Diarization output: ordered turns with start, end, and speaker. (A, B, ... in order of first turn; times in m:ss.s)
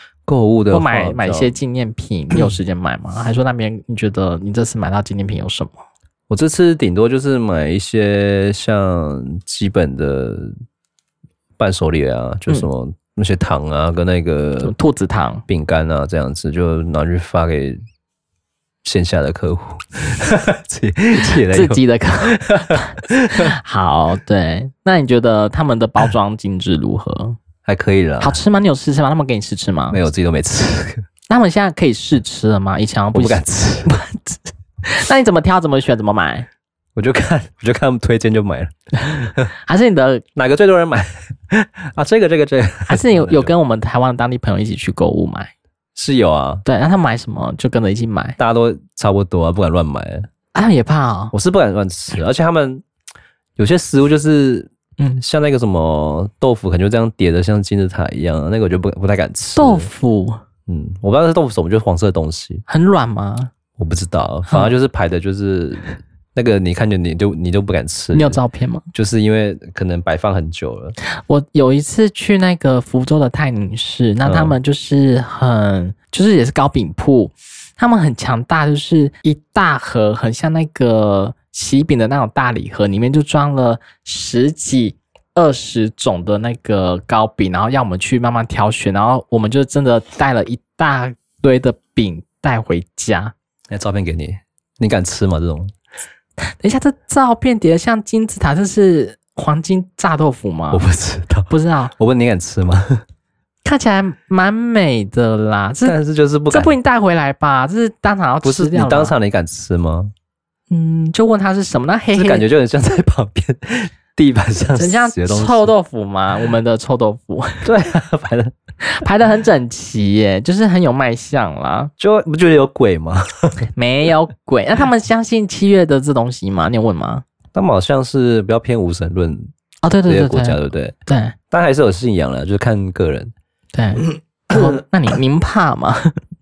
0:00.3-0:01.5 A
0:00.7-0:05.8 B
0:06.3-0:10.5 A
0:11.6-0:14.7 A
0:14.6-0:15.4 B
0:15.5-0:17.8 A
0:18.8-0:23.5 A
0:21.5-0:27.4 B
0:27.6-0:28.4 A
0:28.2-0:30.0 B
0:29.9-0:31.0 A
0:31.3-0:36.5 B
0:33.1-0:34.0 A
0:37.0-0:39.5 A
0:39.6-0:40.2 B
0:40.3-0:43.5 A
0:42.9-0:45.5 B
0:46.0-0:46.6 A
0:46.6-0:48.4 B
0:48.4-0:50.3 A
0:50.5-0:51.3 B
0:51.3-0:52.8 A
0:53.6-0:59.9 A
0:59.6-1:00.4 B
1:00.7-1:02.6 A
1:02.7-1:03.5 B
1:03.8-1:08.4 A
1:08.1-1:08.8 B
1:08.9-1:11.0 A
1:11.2-1:33.3 B
1:14.2-1:14.5 A
1:33.7-1:35.7 A
1:36.4-1:40.8 B
1:40.7-1:43.0 A
1:41.5-1:41.9 B
1:43.6-1:45.9 B
1:45.8-1:46.7 A
1:46.5-1:49.1 B
1:48.4-1:50.1 A
1:50.7-1:52.4 B
1:52.1-1:55.7 A
1:54.8-1:57.6 B
1:57.6-1:58.5 A
1:58.8-2:01.9 B
2:02.0-2:03.7 A
2:03.7-2:07.2 B
2:07.5-2:09.5 A
2:09.8-2:11.3 B
2:10.0-2:10.9 A
2:11.5-2:13.3 A
2:13.7-2:16.2 B